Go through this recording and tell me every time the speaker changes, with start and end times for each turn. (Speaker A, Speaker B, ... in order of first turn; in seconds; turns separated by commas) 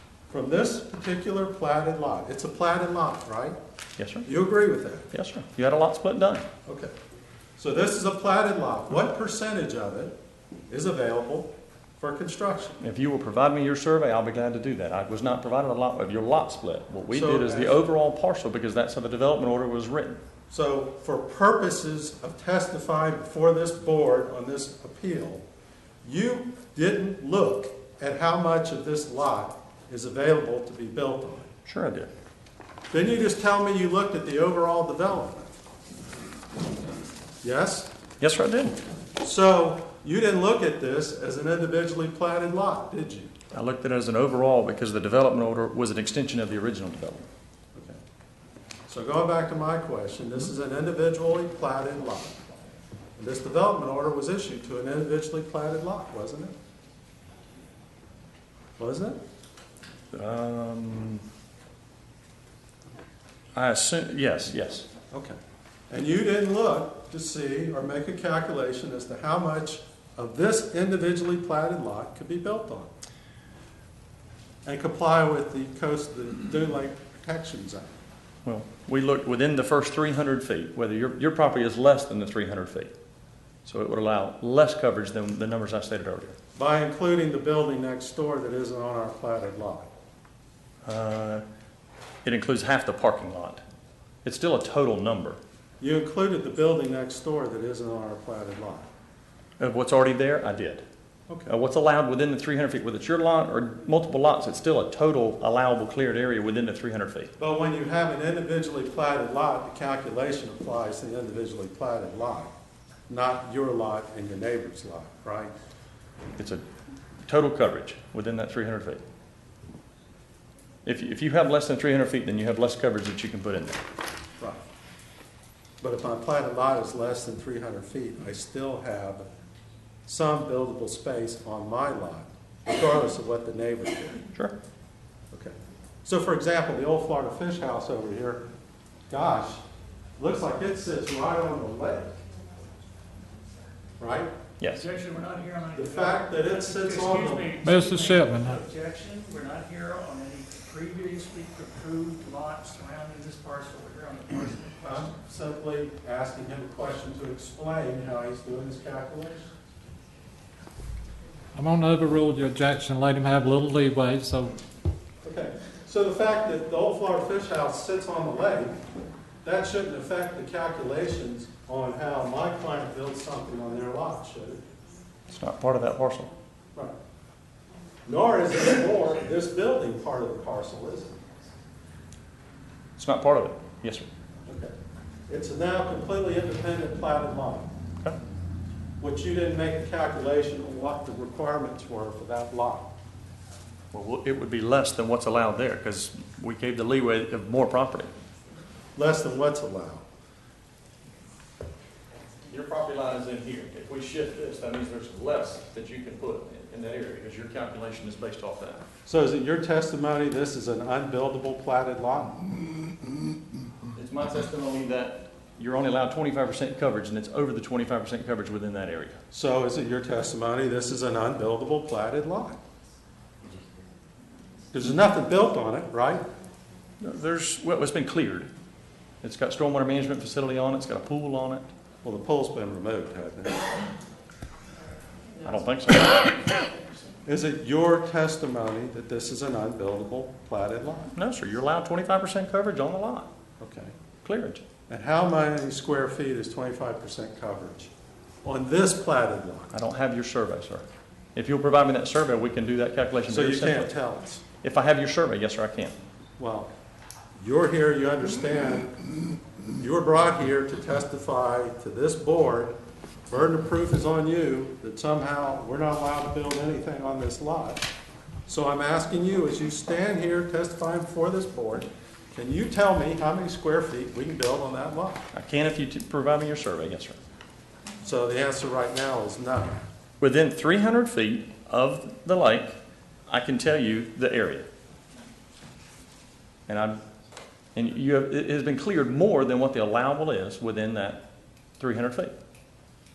Speaker A: 0.3-3.5, Speaker B: 4.0-4.2, Speaker A: 4.2-5.0, Speaker B: 5.1-6.4, Speaker A: 6.7-6.9, Speaker A: 7.6-10.1, Speaker A: 10.7-12.8, Speaker B: 12.8-20.2, Speaker A: 17.1-17.8, Speaker A: 20.5-25.4, Speaker A: 26.0-31.5, Speaker B: 31.6-32.1, Speaker A: 32.9-35.5, Speaker A: 37.4-37.9, Speaker B: 38.2-38.8, Speaker A: 39.2-43.3, Speaker B: 43.5-47.2, Speaker A: 48.9-52.5, Speaker A: 53.2-56.5, Speaker A: 58.8-59.2, Speaker B: 60.1-61.2, Speaker B: 63.5-64.9, Speaker A: 65.1-65.4, Speaker A: 65.9-72.9, Speaker A: 74.6-77.9, Speaker B: 78.4-82.9, Speaker B: 83.6-86.3, Speaker A: 86.5-89.9, Speaker B: 90.8-91.4, Speaker B: 92.2-93.6, Speaker B: 94.2-95.4, Speaker A: 95.8-98.8, Speaker B: 99.6-100.8, Speaker A: 101.3-101.5, Speaker B: 101.5-107.3, Speaker A: 107.4-112.5, Speaker A: 113.1-115.5, Speaker B: 116.4-116.6, Speaker B: 117.3-119.0, Speaker B: 120.8-123.8, Speaker A: 125.8-129.2, Speaker A: 130.1-134.2, Speaker A: 135.3-138.4, Speaker A: 139.1-139.6, Speaker A: 140.2-142.1, Speaker A: 144.0-144.3, Speaker B: 144.6-144.9, Speaker C: 144.7-155.1, Speaker A: 145.7-147.5, Speaker D: 147.6-148.6, Speaker A: 154.8-159.5, Speaker D: 161.5-164.6, Speaker A: 165.2-168.8, Speaker A: 169.4-174.6, Speaker B: 175.3-176.3, Speaker A: 178.1-181.2, Speaker B: 183.0-184.1, Speaker A: 184.5-184.7, Speaker A: 185.3-187.7, Speaker A: 189.0-192.9, Speaker B: 193.9-198.1, Speaker A: 198.9-200.0, Speaker B: 202.5-208.8, Speaker A: 209.1-212.4, Speaker B: 213.9-219.2, Speaker A: 219.3-222.6, Speaker A: 224.7-226.2, Speaker B: 227.0-228.5, Speaker B: 229.2-231.7, Speaker A: 232.0-233.7, Speaker B: 235.4-236.4, Speaker A: 237.2-241.1, Speaker B: 241.1-243.3, Speaker A: 243.6-243.9, Speaker B: 244.2-244.6, Speaker A: 244.9-247.9, Speaker A: 248.4-249.7, Speaker B: 249.7-253.9, Speaker A: 253.3-254.4, Speaker B: 254.6-256.0, Speaker A: 256.4-256.7, Speaker A: 257.4-258.9, Speaker A: 259.8-262.8, Speaker A: 263.3-267.9, Speaker A: 268.5-275.2, Speaker B: 275.3-277.2, Speaker A: 278.0-279.8, Speaker B: 280.2-282.7, Speaker B: 283.3-284.6, Speaker B: 286.7-287.0, Speaker B: 287.8-291.2, Speaker B: 291.8-292.3